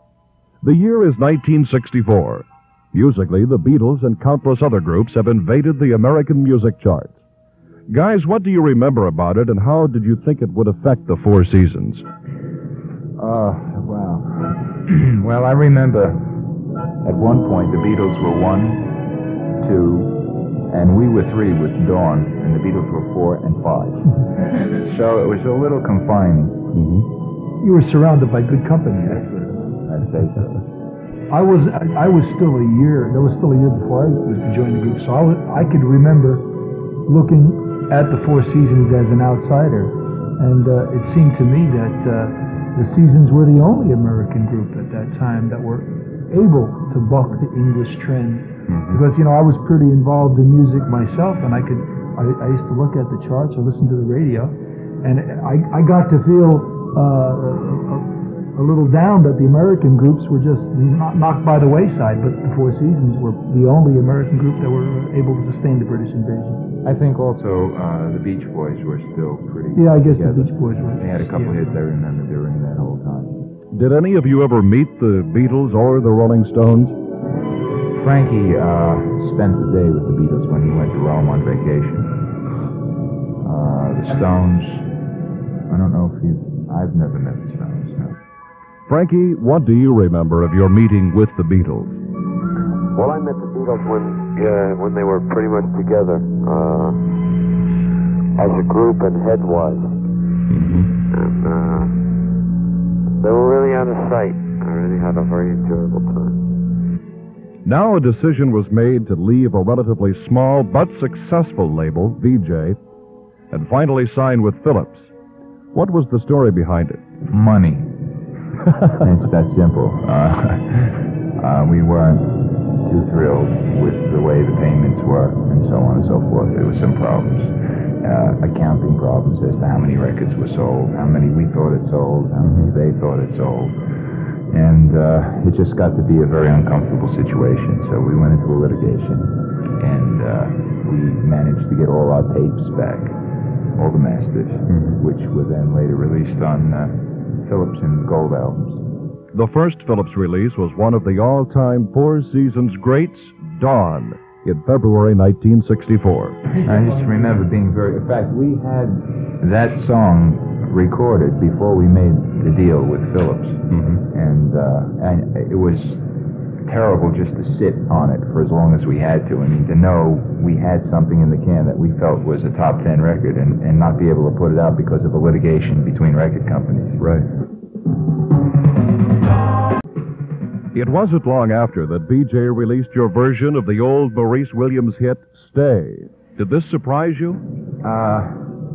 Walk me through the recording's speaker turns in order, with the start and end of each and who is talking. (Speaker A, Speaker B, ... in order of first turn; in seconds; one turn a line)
Speaker A: 0.6-7.2
Speaker A: 7.9-12.1
Speaker B: 13.2-16.2
Speaker B: 17.0-18.9
Speaker B: 19.6-20.2
Speaker B: 20.7-26.6
Speaker A: 26.7-27.1
Speaker C: 27.6-29.7
Speaker B: 29.8-30.6
Speaker C: 31.3-36.5
Speaker C: 37.1-66.7
Speaker A: 48.7-49.0
Speaker B: 66.8-73.3
Speaker C: 69.8-71.6
Speaker A: 73.7-77.0
Speaker B: 78.0-82.2
Speaker B: 83.4-84.9
Speaker B: 85.7-88.2
Speaker A: 88.9-92.0
Speaker D: 92.9-97.0
Speaker D: 98.4-99.9
Speaker A: 100.5-100.9
Speaker D: 101.1-102.0
Speaker D: 103.2-106.4
Speaker A: 107.7-112.8
Speaker A: 113.5-115.1
Speaker A: 115.7-117.0
Speaker B: 117.3-117.9
Speaker B: 118.8-122.3
Speaker B: 122.8-133.8
Speaker B: 134.5-143.1
Speaker B: 143.8-148.8
Speaker A: 144.7-145.0
Speaker A: 149.3-156.4
Speaker B: 156.5-166.0
Speaker A: 163.7-164.0
Speaker B: 166.7-177.0
Speaker A: 177.0-177.3
Speaker A: 180.7-187.4
Speaker B: 187.8-188.4